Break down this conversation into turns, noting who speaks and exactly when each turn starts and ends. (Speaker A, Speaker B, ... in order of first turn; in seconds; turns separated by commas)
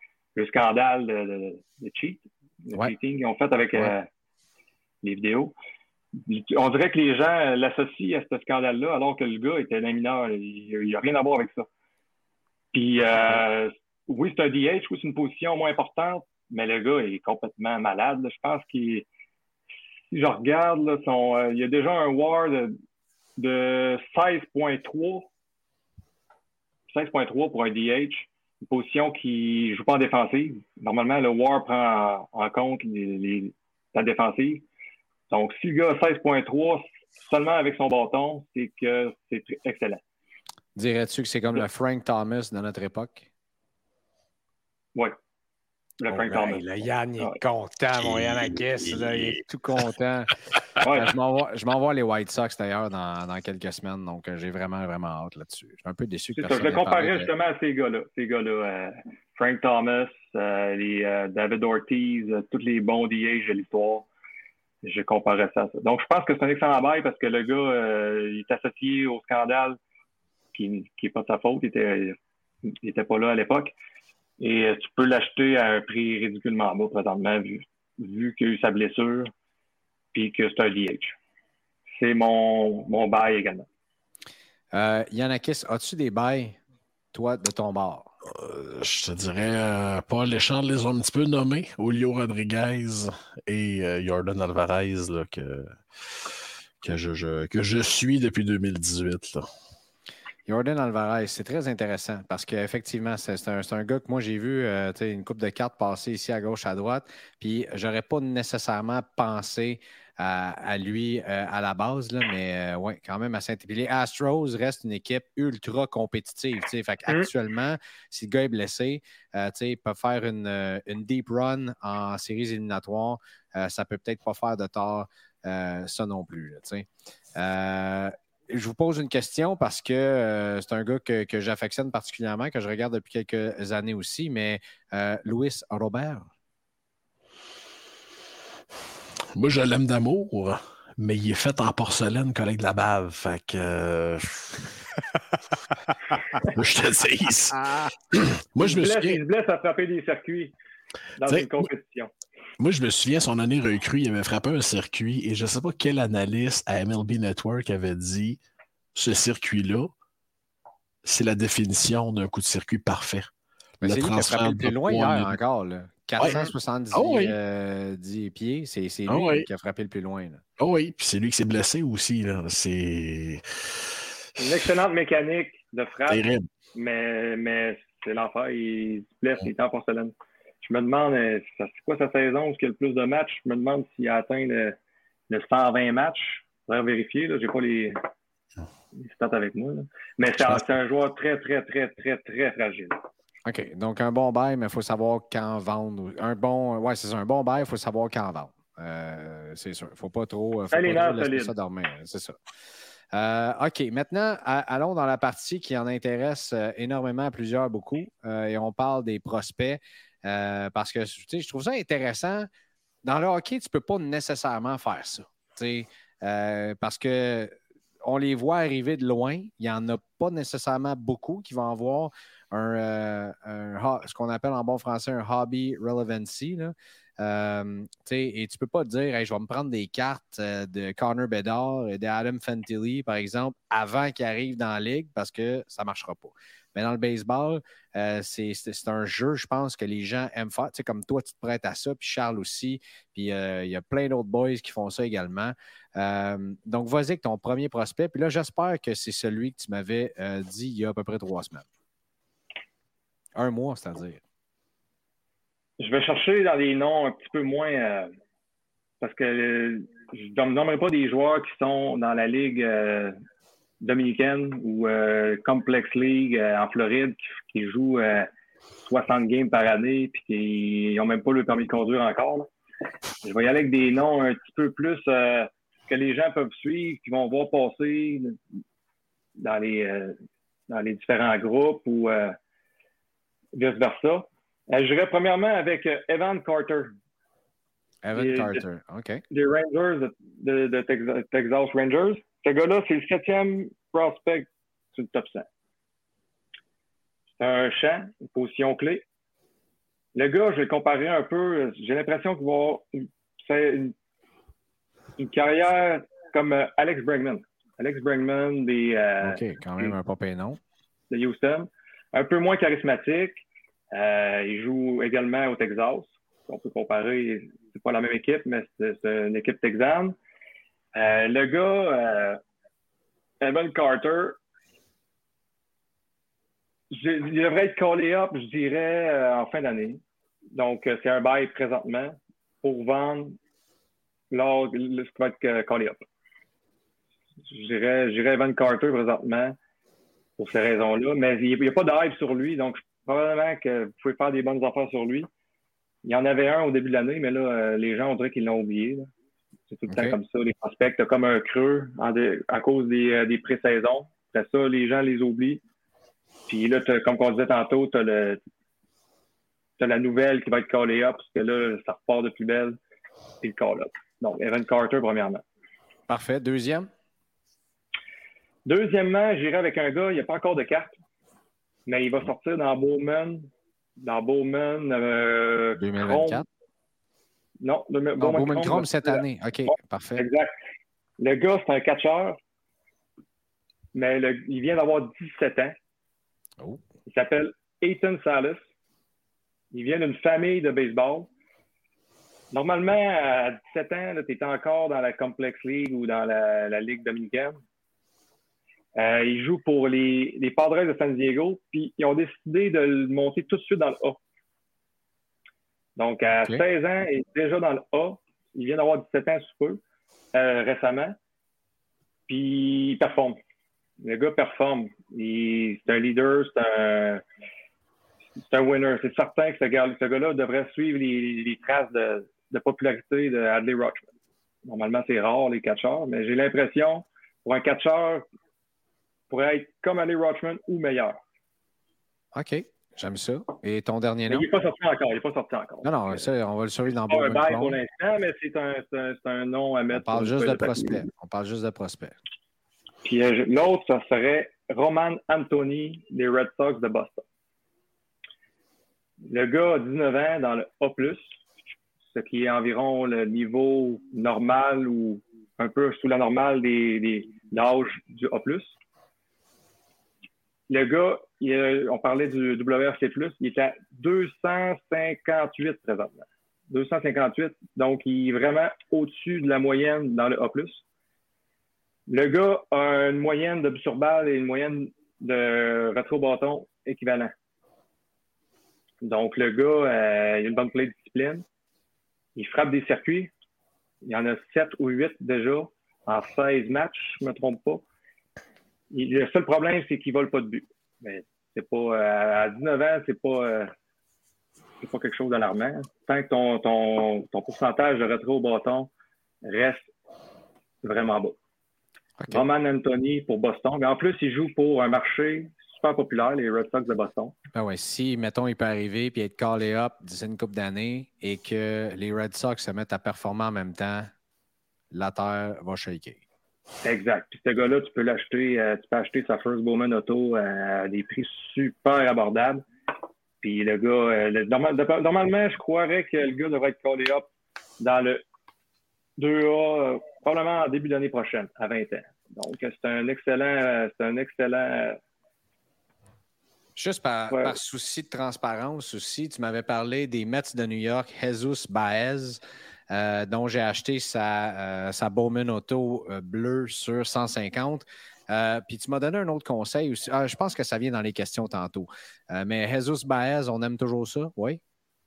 Speaker A: 0.3-4.1, Speaker A: 5.0-5.5, Speaker A: 6.3-11.7, Speaker A: 12.7-19.1, Speaker A: 20.1-22.8, Speaker A: 23.4-25.3, Speaker A: 26.9-34.6, Speaker A: 35.3-40.0, Speaker B: 40.8-43.3, Speaker A: 46.0-46.7, Speaker B: 46.1-57.3, Speaker C: 48.0-49.4, Speaker A: 50.8-51.1, Speaker A: 56.4-64.1, Speaker A: 64.8-69.8, Speaker A: 70.5-72.2, Speaker A: 72.8-73.7, Speaker A: 74.4-79.3, Speaker A: 80.1-81.1, Speaker A: 82.0-83.7, Speaker B: 84.7-86.6, Speaker B: 87.1-88.1, Speaker C: 88.3-96.3, Speaker C: 96.8-99.4, Speaker B: 100.5-136.3, Speaker C: 139.3-144.7, Speaker C: 146.4-149.2, Speaker B: 147.5-147.9, Speaker A: 148.6-150.5, Speaker A: 151.2-152.1, Speaker C: 151.3-151.7, Speaker C: 152.6-158.4, Speaker C: 158.9-159.9, Speaker C: 161.0-163.3, Speaker C: 163.8-165.3, Speaker B: 163.8-170.4, Speaker C: 166.2-167.3, Speaker C: 169.1-169.5, Speaker C: 170.6-173.4, Speaker A: 174.4-184.8, Speaker C: 176.1-176.5, Speaker A: 185.3-188.1, Speaker A: 188.9-193.0, Speaker B: 193.4-202.3, Speaker A: 200.7-201.5, Speaker B: 203.1-212.5, Speaker B: 213.0-251.7, Speaker B: 253.3-254.2, Speaker A: 255.8-258.1, Speaker A: 259.0-263.2, Speaker A: 263.8-268.3, Speaker A: 268.8-272.5, Speaker A: 273.2-278.4, Speaker A: 279.4-280.2, Speaker A: 280.7-282.4, Speaker A: 283.5-287.0, Speaker B: 288.0-289.2, Speaker A: 288.1-288.6, Speaker A: 289.3-295.4, Speaker A: 297.4-299.0, Speaker A: 300.1-303.9, Speaker A: 305.2-309.9, Speaker B: 309.2-310.6, Speaker A: 311.1-313.4, Speaker A: 313.9-320.1, Speaker A: 320.9-322.4, Speaker A: 323.4-324.4, Speaker A: 326.9-330.0, Speaker A: 330.5-333.4, Speaker A: 334.3-336.1, Speaker A: 337.5-339.6, Speaker A: 340.4-345.3, Speaker A: 346.0-349.1, Speaker A: 349.7-355.6, Speaker B: 349.9-350.2, Speaker A: 356.5-358.4, Speaker A: 359.8-362.8, Speaker A: 363.4-365.4, Speaker B: 366.1-366.9, Speaker A: 368.6-370.9, Speaker A: 371.9-376.4, Speaker B: 375.8-376.4, Speaker A: 377.6-380.5, Speaker B: 378.2-380.3, Speaker A: 381.2-382.4, Speaker A: 383.9-385.8, Speaker A: 387.1-388.6, Speaker A: 389.7-391.3, Speaker A: 392.5-397.6, Speaker A: 398.9-404.2, Speaker A: 406.0-409.8, Speaker A: 410.3-411.2, Speaker A: 412.3-413.4, Speaker A: 414.0-417.2, Speaker A: 418.4-424.0, Speaker A: 424.7-428.2, Speaker A: 429.3-431.2, Speaker B: 432.3-434.4, Speaker A: 434.3-436.3, Speaker B: 435.8-437.8, Speaker A: 437.1-441.0, Speaker B: 439.9-442.2, Speaker A: 443.0-447.2, Speaker A: 449.3-451.2, Speaker A: 452.1-458.7, Speaker A: 460.7-470.8, Speaker A: 472.1-477.3, Speaker A: 479.0-481.4, Speaker A: 482.4-483.3, Speaker A: 484.0-487.8, Speaker A: 488.9-493.7, Speaker A: 494.8-498.9, Speaker A: 499.4-499.9, Speaker A: 500.8-501.4, Speaker A: 502.3-507.3, Speaker B: 507.5-514.1, Speaker B: 514.9-516.2, Speaker A: 516.8-522.6, Speaker A: 523.4-527.3, Speaker A: 527.8-528.2, Speaker A: 529.2-535.0, Speaker B: 536.8-554.6, Speaker A: 537.3-537.5